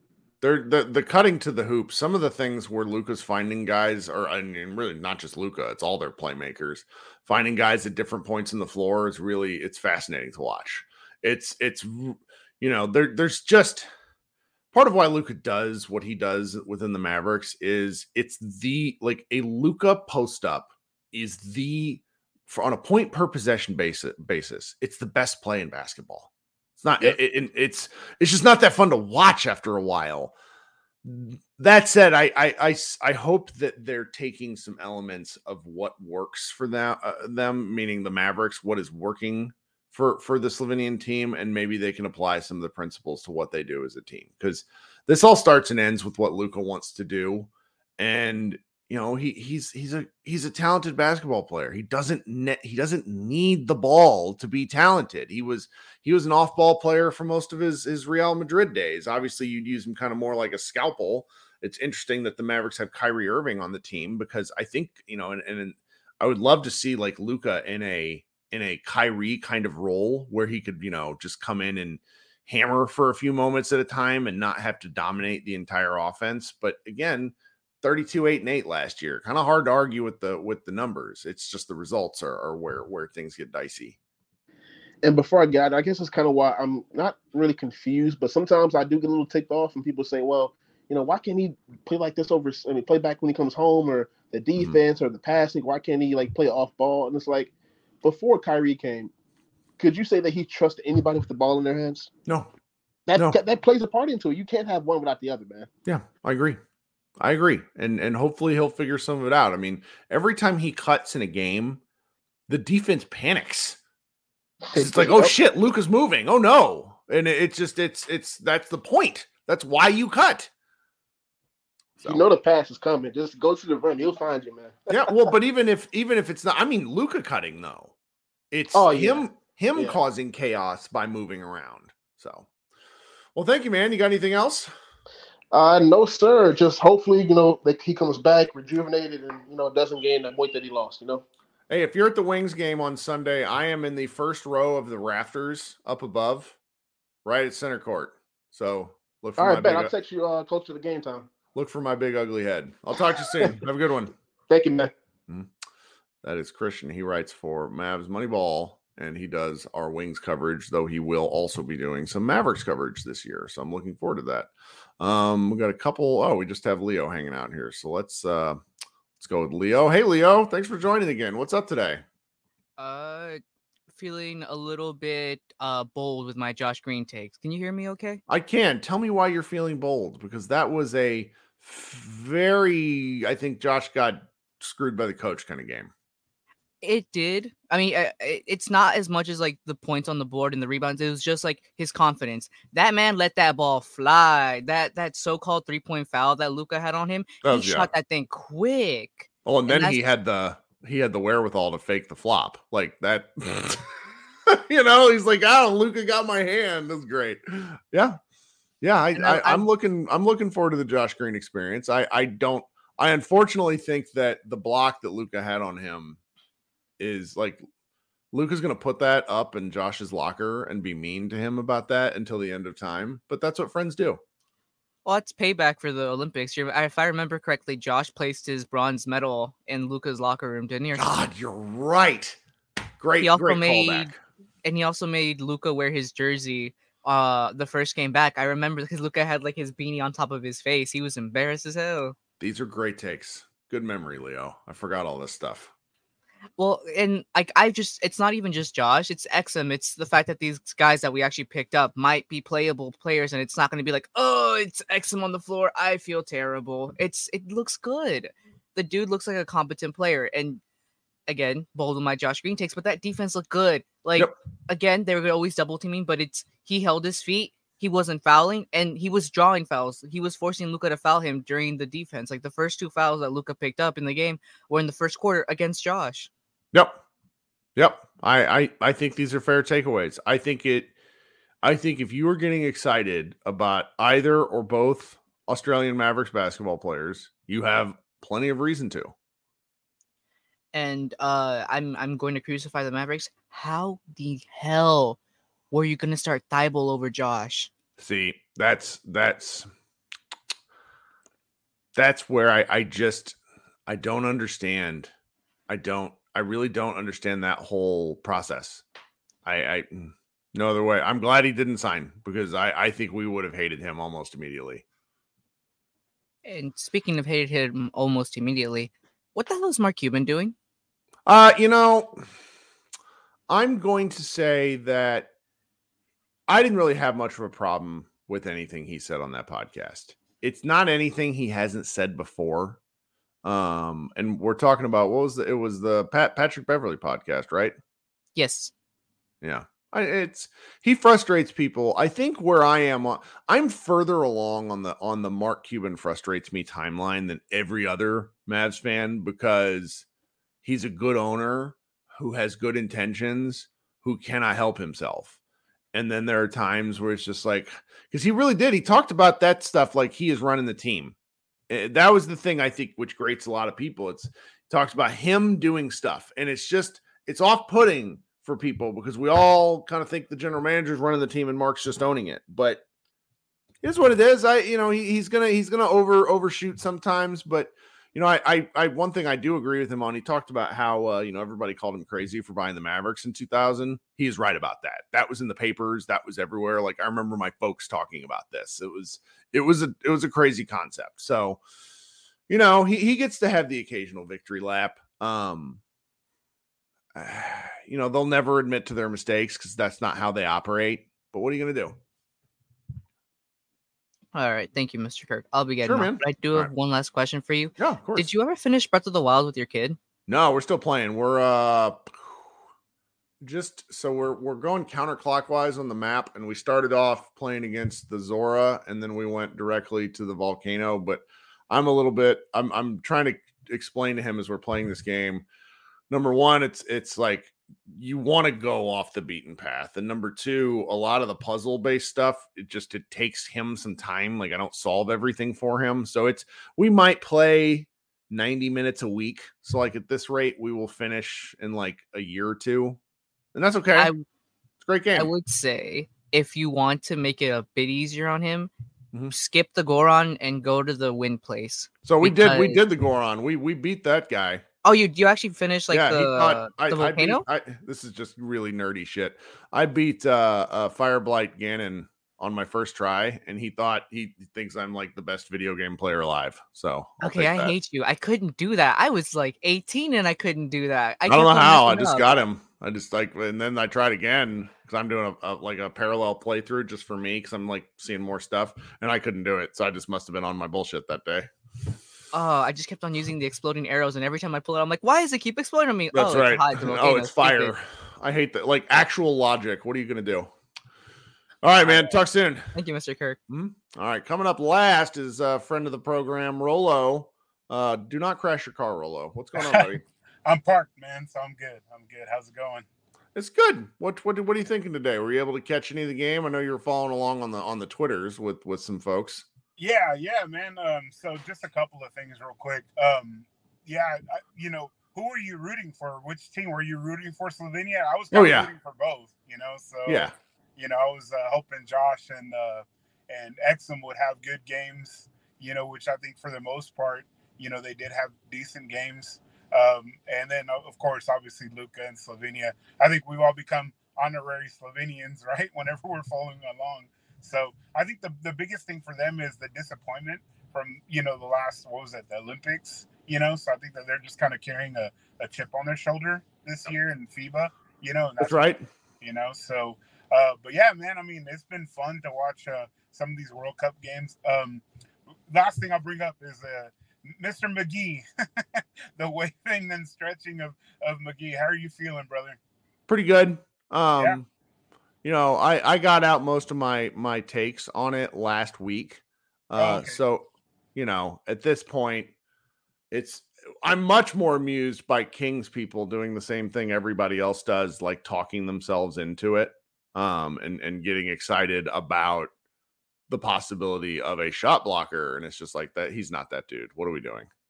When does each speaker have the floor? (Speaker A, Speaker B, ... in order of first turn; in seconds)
Speaker A: 0.4-13.9, 14.7-30.3, 31.0-84.0, 105.9-106.6, 107.2-111.8, 112.5-113.8, 114.7-120.5, 124.9-127.9, 128.5-132.5, 133.3-134.7, 141.7-146.6, 147.2-149.9, 151.6-154.1, 156.2-168.6, 169.2-172.0, 178.3-185.9, 197.4-197.9, 199.5-203.8, 204.5-208.2, 208.8-216.2, 217.0-217.6, 218.3-224.2, 230.9-232.4, 233.0-234.2, 242.4-245.7, 276.7-277.0, 277.8-280.9, 281.6-289.1, 298.0-299.7, 302.0-305.1, 305.7-308.8, 309.4-314.8, 321.3-322.2, 323.5-325.3, 326.5-332.8, 333.4-337.8, 339.4-350.1, 350.6-355.4, 355.9-361.1, 361.7-372.8, 373.8-391.6, 392.5-395.8, 397.1-402.0, 405.8-406.7, 407.8-408.3, 410.3-412.5, 413.4-425.4, 426.1-443.0, 443.6-444.1, 444.8-445.3, 452.0-454.6, 455.9-467.8, 471.3-481.5, 486.1-490.5, 491.6-492.7, 493.5-500.0, 503.4-509.5, 518.3-518.7, 520.1-520.3, 548.4-548.9, 563.1-564.5, 565.2-572.3, 573.1-582.5, 583.3-587.5
Speaker B: 85.0-97.5, 98.0-99.1, 99.8-102.1, 103.1-105.7, 114.7-115.3, 122.0-125.1, 128.7-129.2, 135.5-141.2, 149.4-151.3, 154.5-154.9
Speaker C: 172.8-173.4, 173.9-178.2, 186.8-200.0, 209.2-209.7, 225.1-231.1, 233.2-234.1, 234.6-242.2, 246.6-260.6, 261.3-276.3, 290.7-295.2, 295.7-297.7, 316.4-320.6, 338.4-338.7, 404.3-410.0, 444.0-444.2, 445.1-448.7, 449.3-452.9, 454.8-457.4, 467.2-472.3, 482.3-487.8, 491.8-492.1, 492.7-493.4
Speaker D: 499.6-499.9, 500.4-502.9, 509.8-554.8, 555.5-562.6, 569.8-570.2